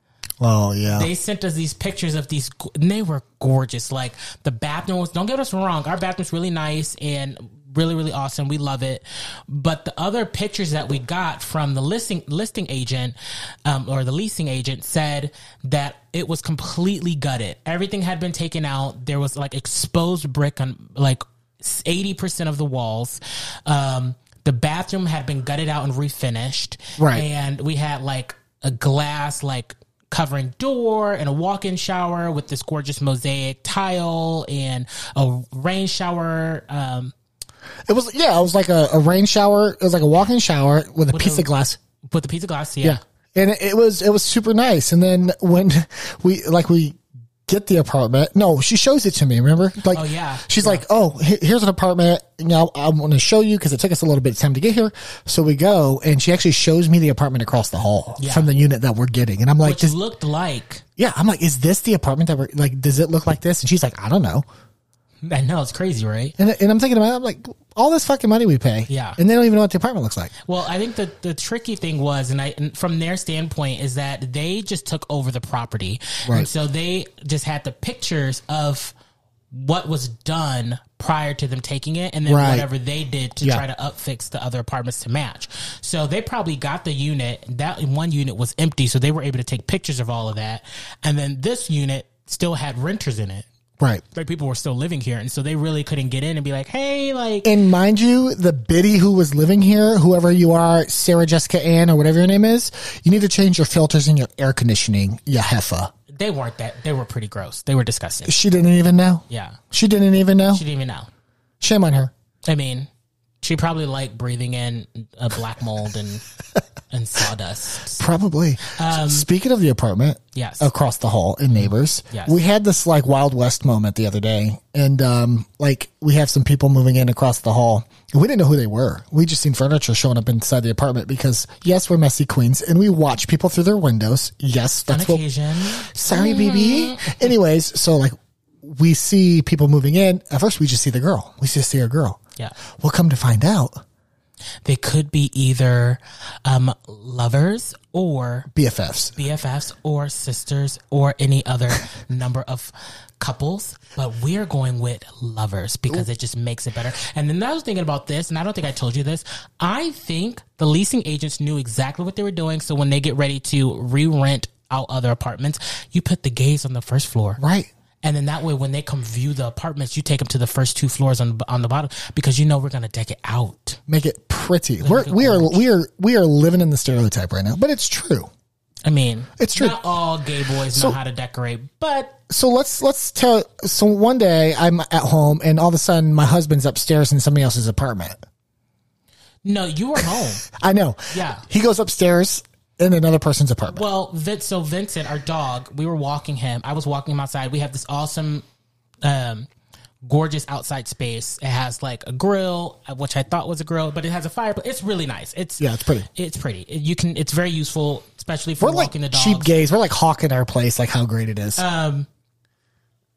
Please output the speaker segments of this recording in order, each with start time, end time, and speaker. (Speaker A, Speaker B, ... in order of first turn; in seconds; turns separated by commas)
Speaker A: 0.4-1.1, Speaker B: 0.9-37.1, Speaker A: 27.0-27.2, Speaker A: 37.9-41.8, Speaker B: 41.1-41.5, Speaker B: 42.0-43.0, Speaker A: 42.8-59.9, Speaker B: 49.9-50.8, Speaker B: 58.2-58.5, Speaker B: 59.6-60.8, Speaker A: 61.0-64.4, Speaker B: 65.2-66.3, Speaker A: 66.4-70.3, Speaker B: 68.9-69.2, Speaker B: 70.5-78.9, Speaker B: 79.5-93.5, Speaker A: 82.3-82.7, Speaker B: 94.1-97.5, Speaker A: 97.4-105.9, Speaker B: 106.1-108.3, Speaker A: 108.3-110.6, Speaker B: 109.3-109.6, Speaker B: 110.5-111.1, Speaker A: 111.6-112.1, Speaker B: 112.5-112.9, Speaker B: 113.4-116.2, Speaker B: 116.9-118.0, Speaker A: 118.0-142.2, Speaker B: 118.6-119.3, Speaker B: 120.3-120.7, Speaker B: 121.5-122.4, Speaker B: 134.9-137.3, Speaker A: 142.8-143.8, Speaker B: 144.6-148.5, Speaker A: 148.5-149.1, Speaker B: 149.2-167.4, Speaker A: 167.4-167.7, Speaker B: 168.0-173.8, Speaker A: 173.9-178.3, Speaker B: 174.8-175.6, Speaker B: 178.8-182.2, Speaker A: 179.4-179.8, Speaker A: 182.3-188.2, Speaker B: 189.4-190.4, Speaker A: 190.4-193.8, Speaker B: 191.1-191.4, Speaker B: 193.7-198.4, Speaker B: 199.0-199.5, Speaker B: 200.0-209.5, Speaker A: 205.6-206.1, Speaker A: 208.6-211.6, Speaker B: 211.6-212.1